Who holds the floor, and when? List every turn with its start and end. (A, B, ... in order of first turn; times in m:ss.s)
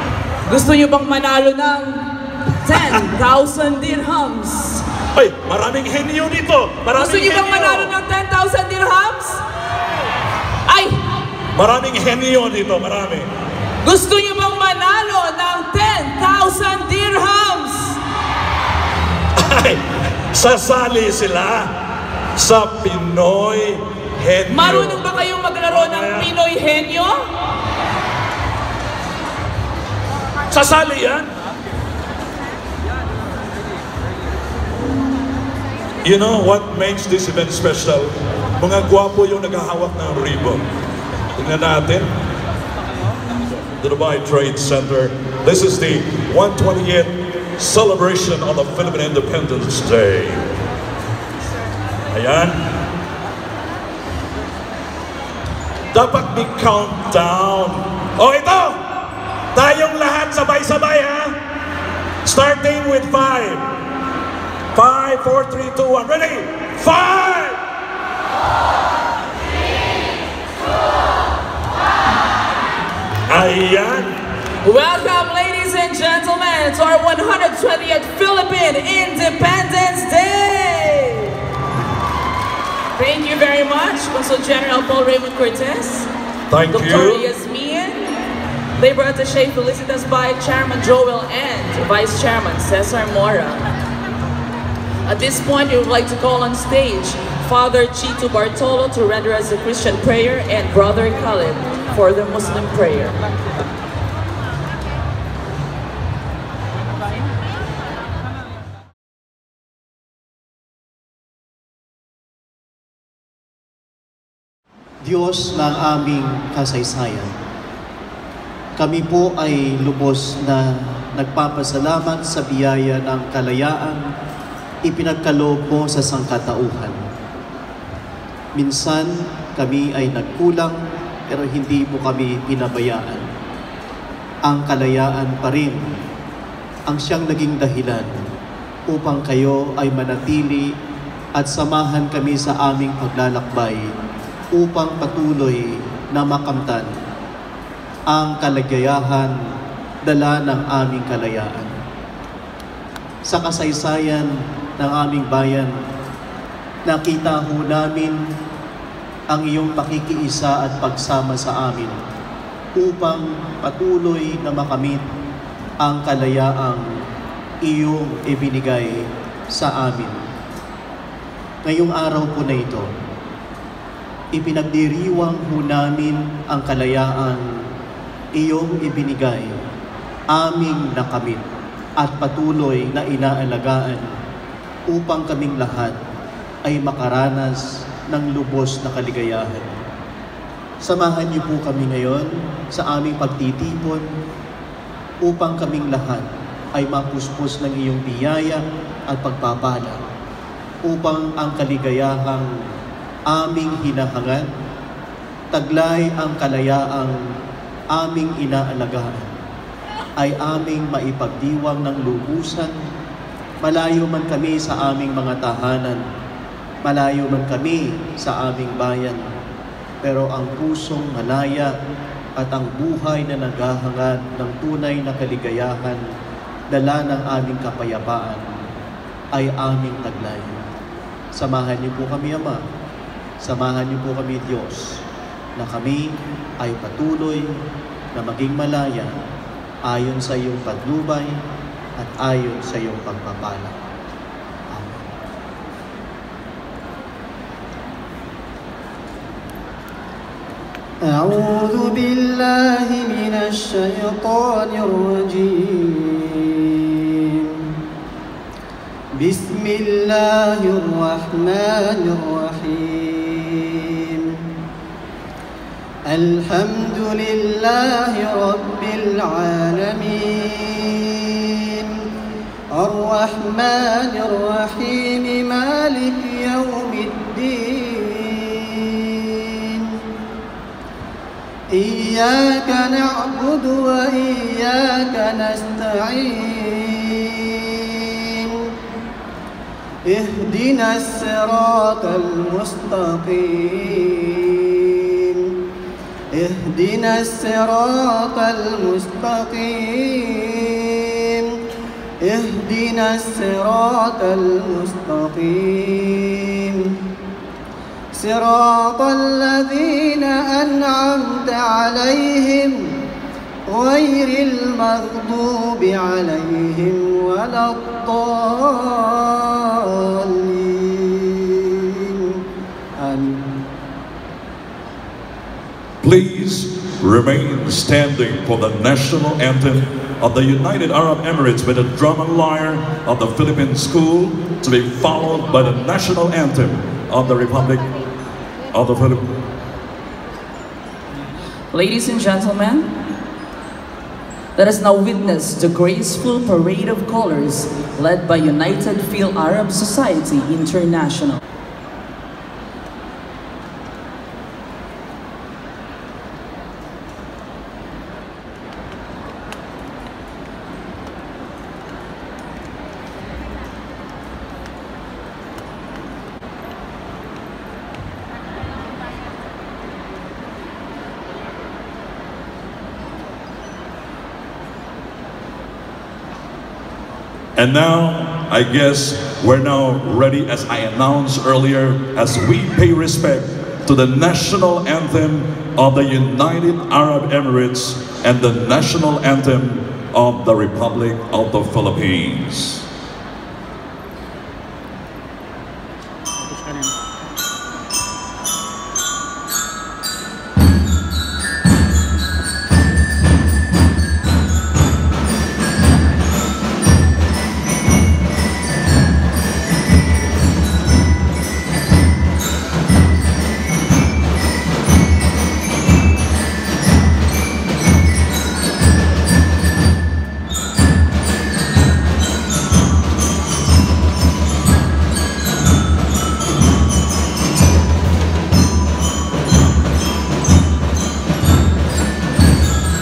0:00.4-0:04.8 A
0:05.1-0:07.9 B
0:06.9-0:09.4 A
0:10.6-0:11.0 A
0:11.5-0:13.3 B
0:13.8-0:18.0 A
0:19.4-0:21.7 B
0:22.4-0:25.0 B
0:24.5-0:27.2 A
0:25.7-0:26.3 B
0:30.5-0:31.3 B
0:36.0-0:40.6 B
0:41.3-0:42.1 B
0:43.8-0:50.5 B
0:52.1-0:52.8 B
0:55.9-1:01.4 B
1:02.2-1:03.6 B
1:04.7-1:07.6 B
1:13.3-1:14.2 B
1:14.6-1:21.4 A
1:23.0-1:26.1 A
1:26.5-1:27.3 B
1:26.7-1:28.2 A
1:28.8-1:33.7 A
1:35.0-1:43.2 A
1:55.0-1:57.3 C
1:58.8-2:04.0 C
2:04.8-2:07.0 C
2:08.6-2:10.8 C
2:11.3-2:13.2 C
2:14.4-2:15.8 C
2:16.9-2:18.2 C
2:18.9-2:20.7 C
2:21.4-2:23.8 C
2:24.5-2:26.9 C
2:28.1-2:29.3 C
2:30.0-2:31.7 C
2:33.3-2:35.7 C
2:36.9-2:38.2 C
2:39.3-2:42.0 C
2:42.8-2:45.0 C
2:45.8-2:46.8 C
2:47.6-2:48.9 C
2:49.5-2:50.2 C
2:51.6-2:52.9 C
2:54.3-2:57.4 C
2:58.4-2:59.5 C
3:00.3-3:01.5 C
3:02.0-3:04.0 C
3:04.9-3:06.0 C
3:06.6-3:09.7 C
3:10.8-3:14.0 C
3:15.2-3:20.0 C
3:20.8-3:22.5 C
3:23.3-3:24.5 C
3:25.5-3:27.2 C
3:27.9-3:29.3 C
3:30.2-3:32.7 C
3:33.6-3:36.0 C
3:36.8-3:39.2 C
3:40.0-3:41.7 C
3:42.4-3:46.0 C
3:46.7-3:48.4 C
3:49.3-3:50.6 C
3:51.3-3:52.6 C
3:53.4-3:55.0 C
3:55.6-3:57.4 C
3:58.1-3:59.2 C
3:59.8-4:01.3 C
4:02.0-4:03.8 C
4:04.7-4:05.0 C
4:11.1-4:17.4 D
4:19.2-4:24.3 D
4:26.1-4:31.9 D
4:32.8-4:39.9 D
4:41.7-4:48.5 D
4:50.1-4:55.4 D
4:56.3-5:01.4 D
5:02.2-5:06.8 D
5:08.1-5:12.9 D
5:13.7-5:22.4 D
5:23.0-5:23.6 D
5:26.0-5:38.0 B
5:38.7-5:39.2 B
5:41.7-5:42.9 A
5:44.6-5:51.4 A
6:17.6-6:32.8 B